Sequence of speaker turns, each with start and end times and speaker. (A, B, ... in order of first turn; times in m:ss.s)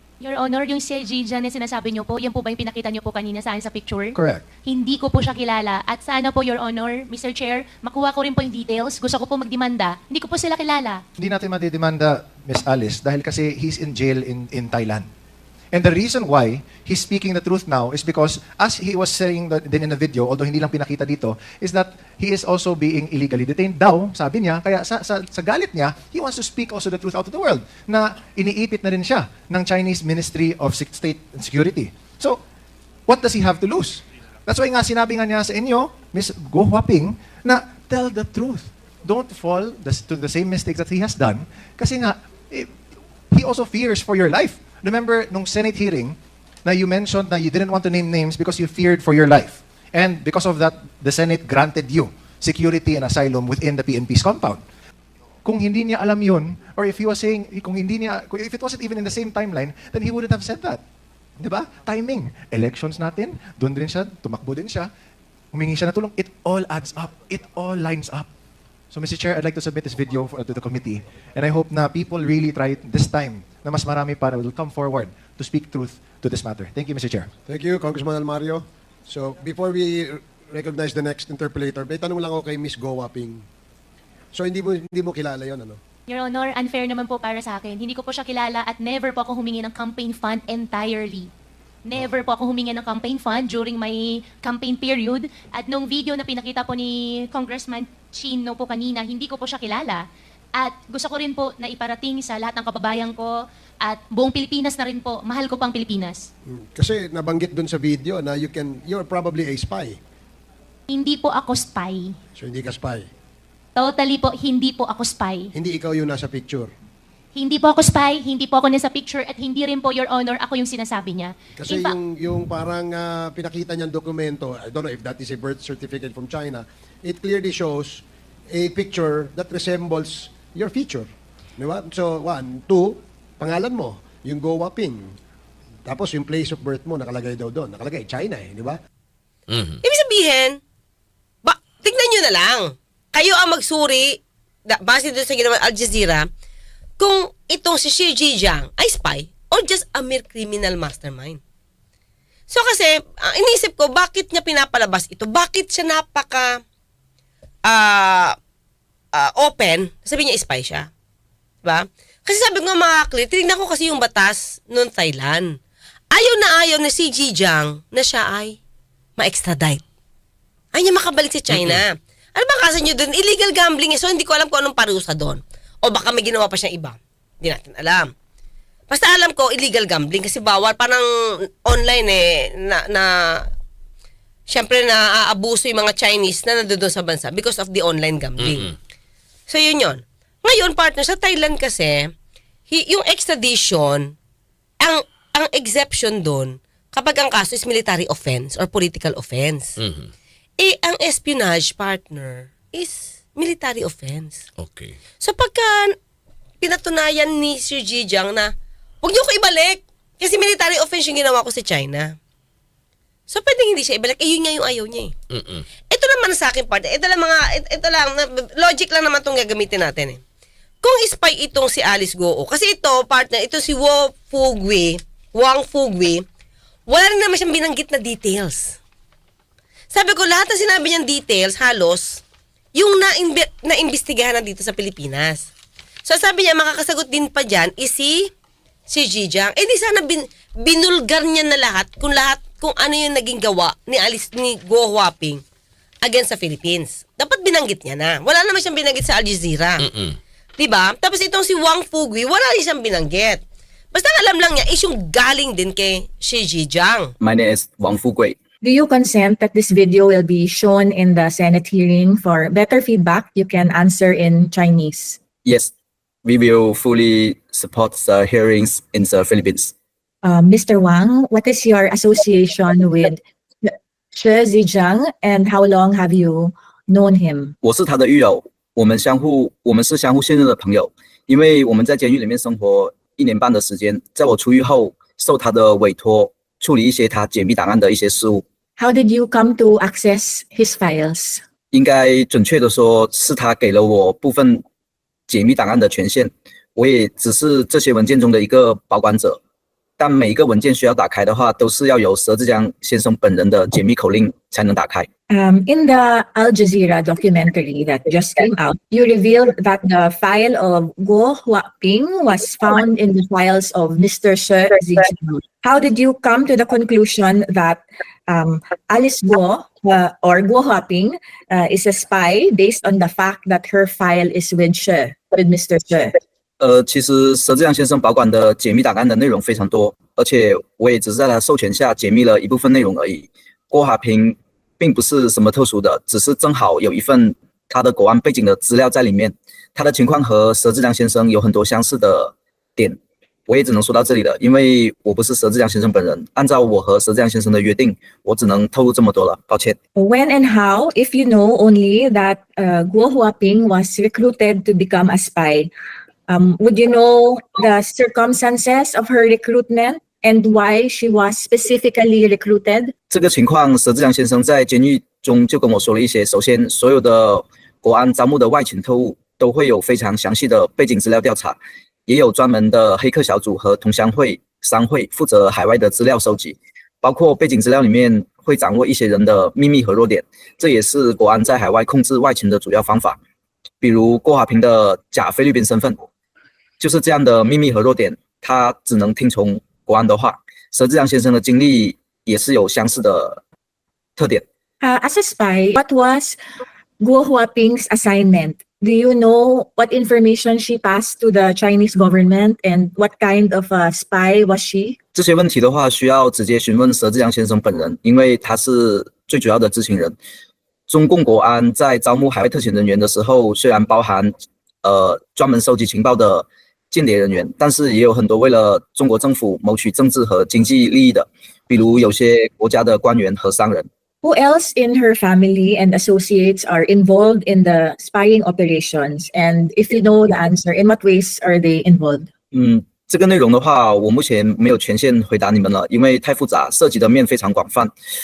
0:00.2-0:11.0 A
0:04.1-0:04.4 B
0:11.2-0:15.1 B
0:15.7-0:32.4 B
0:33.1-0:42.7 B
0:43.3-0:54.6 B
0:55.4-1:00.8 B
1:01.4-1:04.9 B
1:05.5-1:08.3 B
1:08.9-1:17.3 B
1:17.5-1:23.4 C
1:24.3-1:25.8 C
1:26.1-1:31.3 A
1:31.8-1:40.0 A
1:40.6-1:46.3 A
1:46.6-1:50.0 C
1:50.9-1:52.1 A
1:52.4-1:53.1 C
1:53.8-1:55.5 A
1:55.5-1:56.7 C
1:57.3-2:02.0 A
2:01.5-2:08.0 C
2:08.5-2:15.1 C
2:15.8-2:18.8 C
2:19.5-2:19.8 D
2:19.8-2:20.6 E
2:21.4-2:26.2 E
2:27.0-2:31.4 E
2:32.5-2:36.6 E
2:37.7-2:38.3 E
2:39.1-2:40.9 E
2:41.6-2:45.6 E
2:46.1-2:48.6 E
2:49.2-2:49.8 E
2:50.7-2:58.1 E
2:51.5-2:51.8 D
2:58.9-3:01.0 E
3:01.6-3:03.1 E
3:04.5-3:08.8 E
3:08.4-3:08.7 D
3:09.5-3:12.1 E
3:12.7-3:14.1 E
3:14.8-3:19.7 E
3:19.8-3:20.1 D
3:20.6-3:24.4 E
3:24.6-3:25.0 D
3:25.2-3:25.9 E
3:26.6-3:28.5 E
3:29.0-3:32.1 E
3:33.3-3:35.1 E
3:35.3-3:35.6 D
3:35.9-3:40.2 E
3:40.8-3:46.2 E
3:46.9-3:48.8 E
3:49.9-3:52.2 E
3:52.8-3:55.5 E
3:56.0-3:58.3 E
3:58.9-4:05.4 E
4:06.0-4:09.9 E
4:09.8-4:10.2 D
4:10.6-4:13.4 E
4:13.9-4:17.1 E
4:17.2-4:18.4 F
4:18.6-4:25.2 G
4:25.4-4:25.7 F
4:26.2-4:29.7 F
4:30.2-4:37.5 G
4:37.6-4:48.4 F
4:48.8-4:51.4 G
4:51.7-4:54.6 F
4:55.3-4:59.4 F
5:00.0-5:05.1 F
5:05.3-5:26.1 G
5:26.6-5:49.8 F
5:50.0-5:55.7 G
5:56.3-6:02.9 G
6:03.1-6:23.2 F
6:23.8-6:26.1 F
6:26.8-6:33.4 F
6:34.2-6:34.4 F
6:34.8-6:36.4 G
6:37.0-6:45.0 G
6:45.1-6:50.2 F
6:50.9-7:03.9 F
7:04.2-7:12.3 G
7:12.5-7:17.9 F